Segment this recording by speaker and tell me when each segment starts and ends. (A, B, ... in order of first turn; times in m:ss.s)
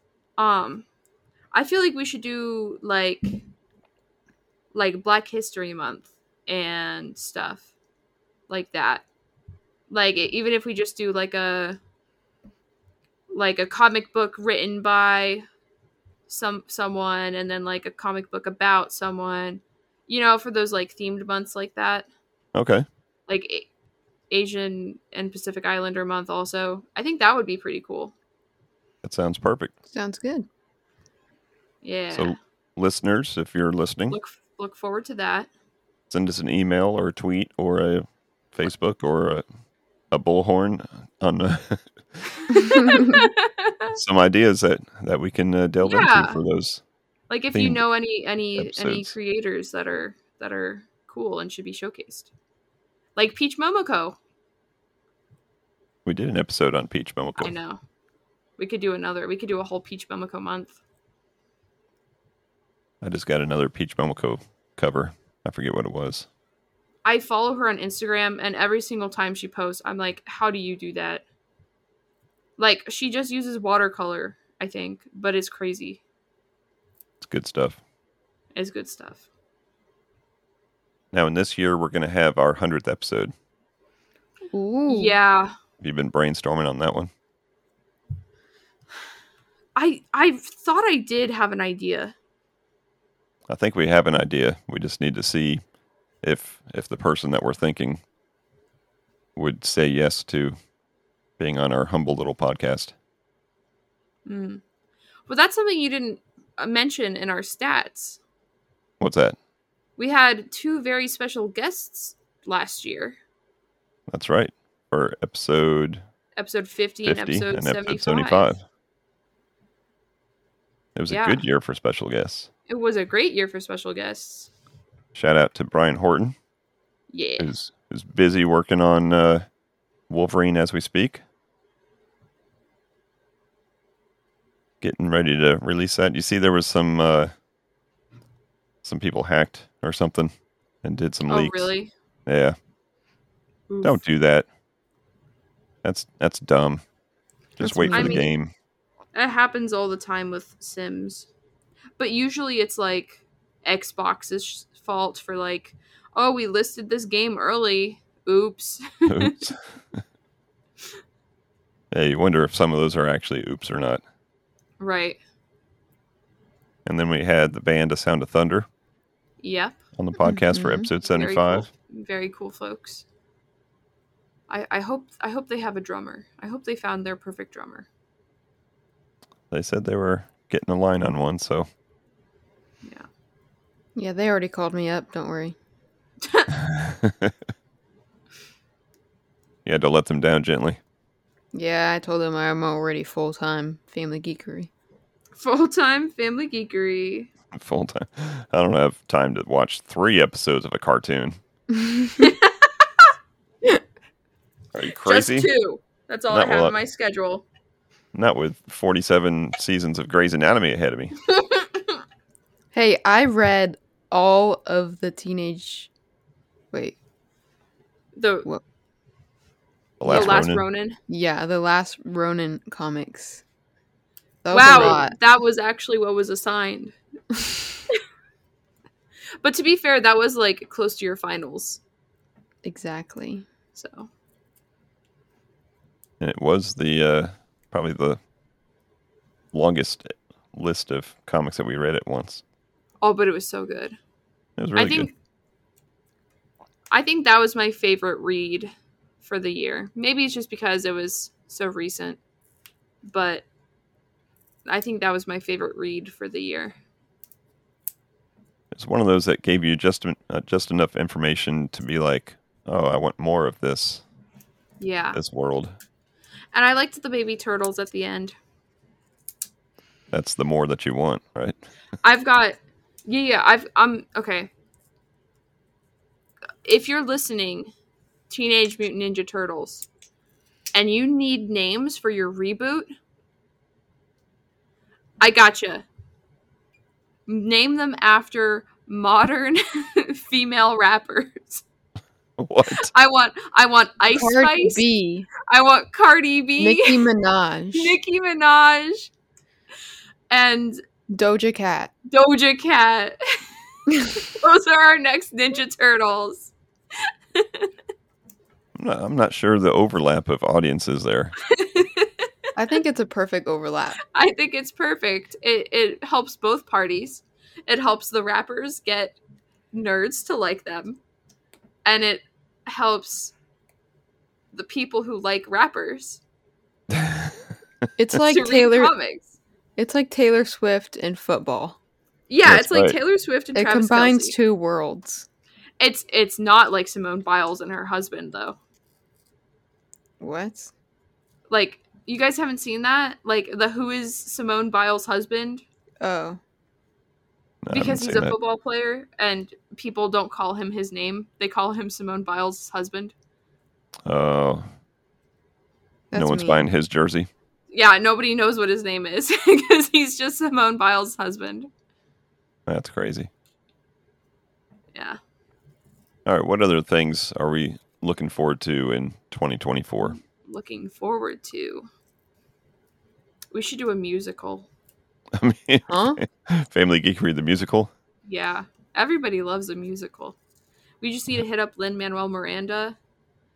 0:00.4-0:00.8 A
0:01.5-0:03.4 A
0:04.7-0:07.7 A
0:08.5-0:09.0 A
0:09.9-0:11.8 A
0:13.3-0:15.4 A
0:16.3-0:22.1 A
0:22.5-0:22.8 B
0:23.3-0:23.7 A
0:24.3-0:28.1 A
0:29.0-0:29.7 B
0:29.9-0:30.5 C
0:31.8-0:32.4 A
0:32.1-0:34.2 B
0:34.1-0:35.5 A
0:36.1-0:39.4 B
0:40.1-0:42.2 B
0:42.5-0:43.9 A
0:43.9-0:46.8 B
0:45.8-0:46.4 A
0:47.3-0:52.3 A
0:47.5-0:47.8 B
0:48.6-0:49.1 B
0:53.2-0:54.2 A
0:56.0-0:57.5 B
0:57.4-0:57.8 A
0:58.6-1:00.8 A
1:03.0-1:06.3 B
1:07.0-1:11.2 A
1:12.6-1:16.0 A
1:17.2-1:17.8 B
1:18.5-1:19.2 A
1:21.1-1:23.3 B
1:24.5-1:25.1 C
1:24.9-1:25.5 A
1:25.8-1:27.1 B
1:29.8-1:32.1 A
1:33.5-1:35.6 B
1:36.2-1:38.0 B
1:39.4-1:40.5 B
1:41.4-1:42.9 B
1:44.2-1:44.6 A
1:45.3-1:48.2 A
1:49.0-1:49.4 B
1:50.0-1:53.2 A
1:54.1-1:56.0 B
1:56.4-1:58.5 A
1:57.0-1:58.6 B
2:00.9-2:02.5 B
2:01.1-2:01.4 A
2:02.7-2:04.5 A
2:05.1-2:06.3 B
2:07.1-2:07.5 A
2:07.4-2:09.4 B
2:10.1-2:11.2 B
2:14.8-2:17.3 B
2:18.8-2:20.3 B
2:20.8-2:21.7 B
2:21.3-2:21.9 A
2:22.2-2:22.6 B
2:23.7-2:24.0 A
2:23.8-2:24.4 B
2:25.8-2:26.8 B
2:27.6-2:28.5 B
2:27.6-2:28.3 C
2:27.9-2:28.3 A
2:29.1-2:31.3 A
2:32.0-2:39.4 A
2:39.1-2:39.6 B
2:41.9-2:44.0 B
2:44.8-2:45.2 A
2:46.8-2:48.6 B
2:49.4-2:49.8 A
2:49.9-2:51.7 B
2:50.2-2:50.9 C
2:51.0-2:53.0 A
2:54.5-2:57.9 A
2:59.5-3:01.7 B
3:04.0-3:05.6 C
3:06.2-3:06.5 A
3:06.8-3:07.3 B
3:09.6-3:10.8 B
3:11.5-3:14.7 C
3:15.4-3:17.3 A
3:17.5-3:21.4 B
3:21.7-3:22.3 C
3:22.2-3:23.1 A
3:24.7-3:25.5 B
3:25.0-3:27.4 A
3:26.3-3:26.8 B
3:28.1-3:31.2 B
3:31.3-3:32.0 A
3:32.7-3:35.9 C
3:36.7-3:37.0 C
3:38.2-3:38.5 A
3:40.0-3:40.6 B
3:40.0-3:41.0 A
3:40.1-3:40.4 C
3:41.1-3:43.4 C
3:44.4-3:45.1 C
3:44.5-3:46.9 A
3:44.7-3:45.0 B
3:49.4-3:51.8 A
3:52.6-3:53.5 C
3:53.7-3:54.1 A
3:56.2-3:58.2 B
3:59.5-4:02.4 B
4:03.0-4:04.0 A
4:04.6-4:05.1 B
4:04.8-4:05.1 A
4:06.9-4:12.2 A
4:13.0-4:13.4 A
4:14.6-4:16.7 A
4:18.7-4:24.0 B
4:24.8-4:25.2 A
4:25.1-4:25.7 B
4:26.5-4:28.3 A
4:30.1-4:31.6 B
4:32.0-4:34.5 A
4:36.6-4:37.7 A
4:38.3-4:39.9 A
4:40.7-4:42.9 A
4:45.2-4:45.8 A
4:47.3-4:51.6 A
4:52.4-4:52.9 B
4:52.8-4:54.8 A
4:54.1-4:55.3 C
4:55.4-4:57.0 A
4:56.6-4:58.0 C
4:57.7-4:59.1 A
5:00.3-5:00.8 A
5:01.1-5:01.9 C
5:02.1-5:03.4 A
5:03.9-5:04.2 C
5:04.0-5:06.5 A
5:07.3-5:07.7 A
5:08.7-5:11.3 B
5:11.5-5:12.3 A
5:12.6-5:14.0 C
5:14.1-5:19.2 A
5:19.7-5:21.0 A
5:21.8-5:23.3 A
5:24.5-5:26.2 A
5:26.9-5:27.3 B
5:28.0-5:28.9 C
5:28.2-5:29.3 A
5:29.8-5:31.8 C
5:32.3-5:34.3 A
5:32.4-5:33.0 B
5:33.5-5:35.2 C
5:35.8-5:38.6 A
5:40.2-5:40.7 C
5:41.5-5:45.6 A
5:46.0-5:46.4 C
5:47.6-5:48.3 B
5:47.7-5:53.1 A
5:54.0-5:54.6 B
5:56.1-5:56.7 C
5:56.1-5:57.3 B
5:57.7-6:01.7 A
6:02.7-6:03.3 B
6:06.2-6:10.2 B
6:10.0-6:11.9 A
6:13.5-6:14.7 A
6:15.4-6:17.9 B
6:15.9-6:16.2 C
6:18.2-6:20.4 A
6:21.0-6:23.0 A